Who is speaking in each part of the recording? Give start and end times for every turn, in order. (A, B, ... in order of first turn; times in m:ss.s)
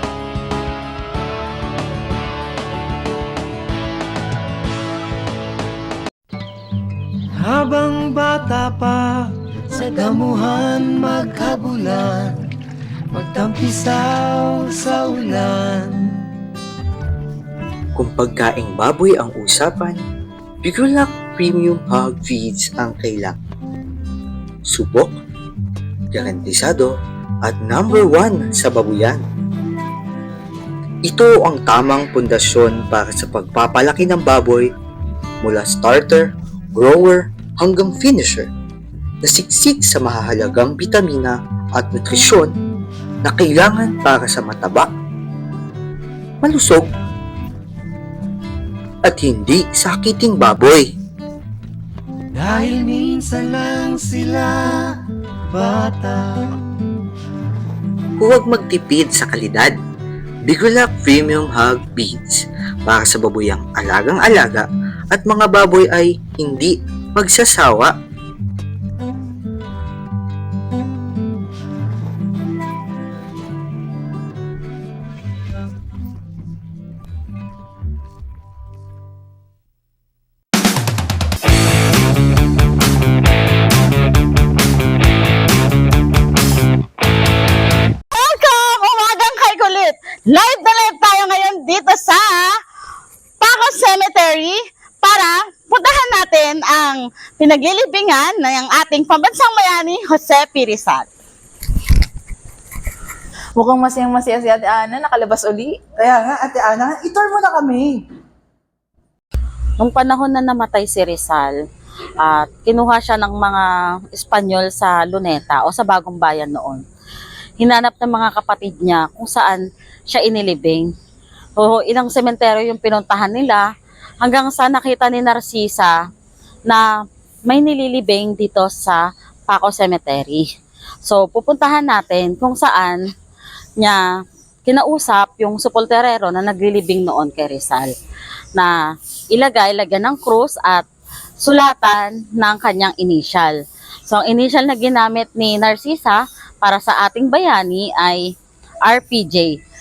0:07.4-0:12.4 A
0:13.1-0:16.0 A
0:18.0-0:20.0 B
0:20.6-0:23.4 B
0:24.7-0:25.2 B
0:26.1-0:29.2 B
0:31.1-0:34.7 B
0:35.4-0:38.5 B
0:39.2-0:42.5 B
0:43.2-0:44.9 B
0:46.4-0:46.9 B
0:49.1-0:50.9 B
0:52.4-0:54.8 A
0:55.5-0:56.5 A
0:58.2-0:59.8 B
1:00.5-1:07.9 B
1:28.1-1:32.5 C
1:33.4-1:41.1 C
1:43.6-1:45.8 D
1:46.0-1:48.0 E
1:49.8-1:51.6 C
1:52.2-1:56.8 C
1:57.6-2:00.9 C
2:01.6-2:03.6 C
2:04.2-2:05.9 C
2:07.5-2:10.4 C
2:11.0-2:13.0 C
2:14.7-2:17.9 C
2:19.3-2:20.9 C
2:21.4-2:23.6 C
2:24.1-2:28.3 C
2:28.8-2:29.6 C